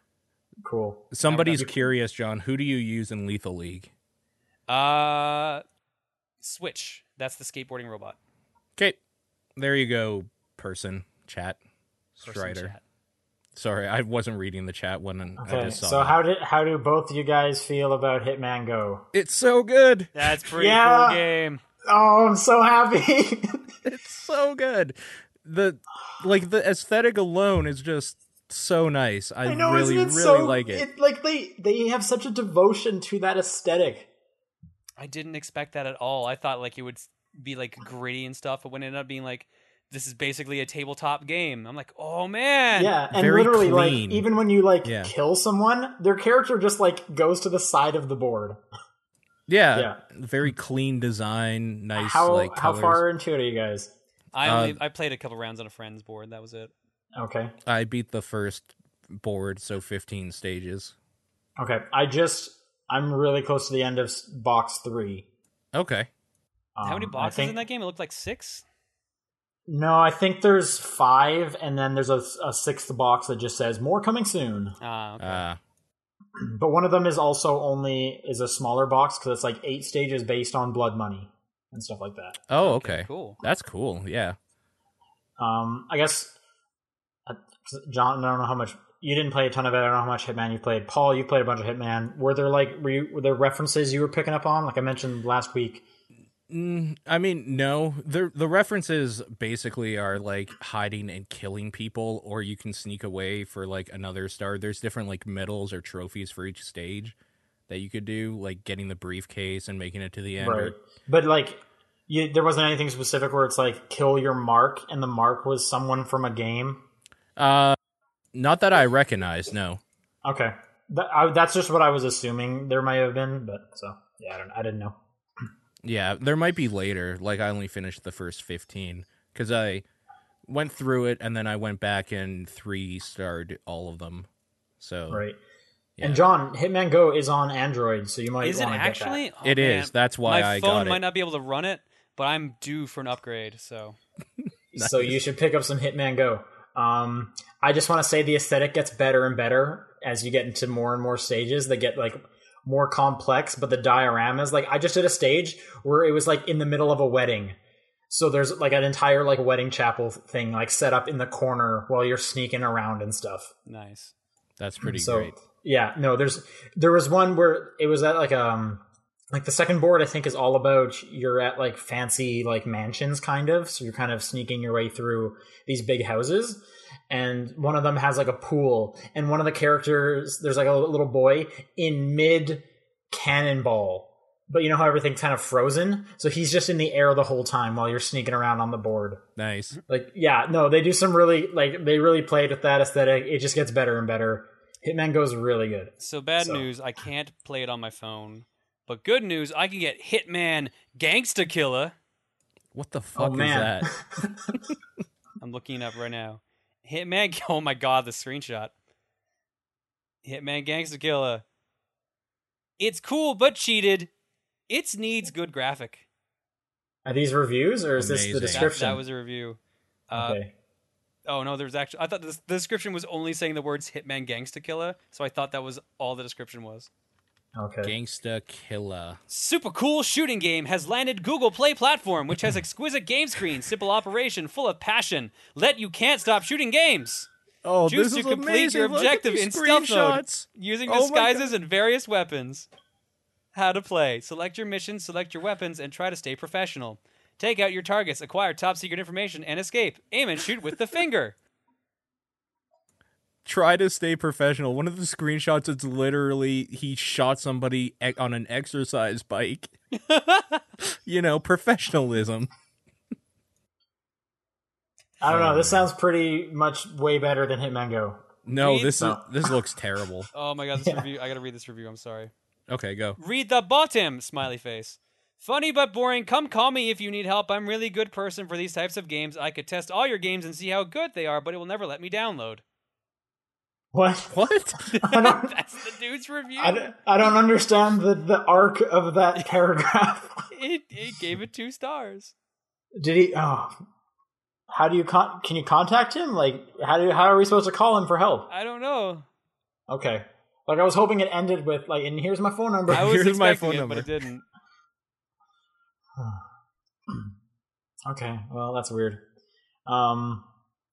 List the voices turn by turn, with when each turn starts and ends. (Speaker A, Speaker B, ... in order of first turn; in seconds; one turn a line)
Speaker A: 0.6-1.7
Speaker B: 1.1-3.9
Speaker C: 1.2-1.7
Speaker C: 4.7-5.6
Speaker C: 6.4-8.2
Speaker B: 9.6-11.6
Speaker B: 12.2-12.7
Speaker C: 12.2-12.8
Speaker B: 13.6-16.2
Speaker A: 15.4-19.1
Speaker B: 19.1-20.1
Speaker C: 20.1-21.6
Speaker A: 20.6-21.2
Speaker A: 21.9-23.7
Speaker B: 23.8-30.9
Speaker A: 29.4-34.1
Speaker C: 35.0-43.0
Speaker A: 42.8-48.6
Speaker B: 43.1-44.3
Speaker B: 44.8-45.1
Speaker B: 49.5-53.0
Speaker A: 49.7-50.0
Speaker A: 52.0-53.9
Speaker C: 54.4-56.7
Speaker B: 54.4-54.8
Speaker A: 57.2-57.5
Speaker B: 57.6-61.0
Speaker A: 61.6-65.3
Speaker B: 65.7-66.1
Speaker A: 66.8-67.6
Speaker C: 66.8-68.6
Speaker A: 69.7-74.8
Speaker C: 74.8-75.5
Speaker B: 75.2-75.6
Speaker A: 76.4-82.4
Speaker B: 82.5-84.4
Speaker C: 82.6-83.4
Speaker A: 85.4-86.4
Speaker A: 87.3-95.8
Speaker B: 96.5-107.2
Speaker B: 107.7-110.8
Speaker A: 110.4-116.8
Speaker B: 117.4-117.8
Speaker B: 118.3-119.8
Speaker A: 120.2-125.0
Speaker B: 125.8-129.8
Speaker B: 130.5-134.3
Speaker B: 134.8-135.2
Speaker A: 135.1-135.4
Speaker B: 136.0-136.2
Speaker A: 136.0-139.2
Speaker C: 138.4-144.0
Speaker B: 139.4-141.0
Speaker B: 144.7-145.2
Speaker A: 144.7-157.6
Speaker A: 158.1-163.5
Speaker C: 163.7-164.1
Speaker B: 164.6-165.3
Speaker A: 164.8-189.2
Speaker B: 189.4-189.8
Speaker A: 189.9-196.7
Speaker C: 196.0-201.9
Speaker B: 202.8-203.9
Speaker A: 203.2-204.6
Speaker C: 205.4-208.7
Speaker C: 210.2-211.4
Speaker C: 212.8-214.1
Speaker C: 214.7-216.1
Speaker A: 217.1-219.0
Speaker B: 218.0-218.7
Speaker C: 218.5-220.4
Speaker A: 220.1-220.5
Speaker C: 221.3-226.9
Speaker A: 227.6-227.9
Speaker B: 227.8-229.2
Speaker C: 229.3-237.3
Speaker B: 237.6-241.6
Speaker C: 237.9-242.7
Speaker C: 243.5-251.4
Speaker B: 253.4-259.7
Speaker C: 260.0-260.6
Speaker B: 261.1-262.5
Speaker A: 265.2-268.3
Speaker B: 265.3-265.9
Speaker B: 268.4-270.3
Speaker C: 268.6-269.1
Speaker A: 269.0-269.5
Speaker C: 270.3-272.3
Speaker A: 270.8-271.1
Speaker B: 272.7-273.2
Speaker C: 273.2-282.6
Speaker A: 283.9-285.6
Speaker B: 284.3-285.0
Speaker C: 285.0-286.9
Speaker A: 286.6-290.4
Speaker C: 290.5-292.3
Speaker A: 293.0-293.8
Speaker A: 294.7-298.5
Speaker C: 298.5-299.3
Speaker A: 299.9-303.1
Speaker B: 302.9-304.1
Speaker C: 302.9-304.4
Speaker A: 306.2-306.4
Speaker A: 308.1-309.2
Speaker A: 309.9-310.5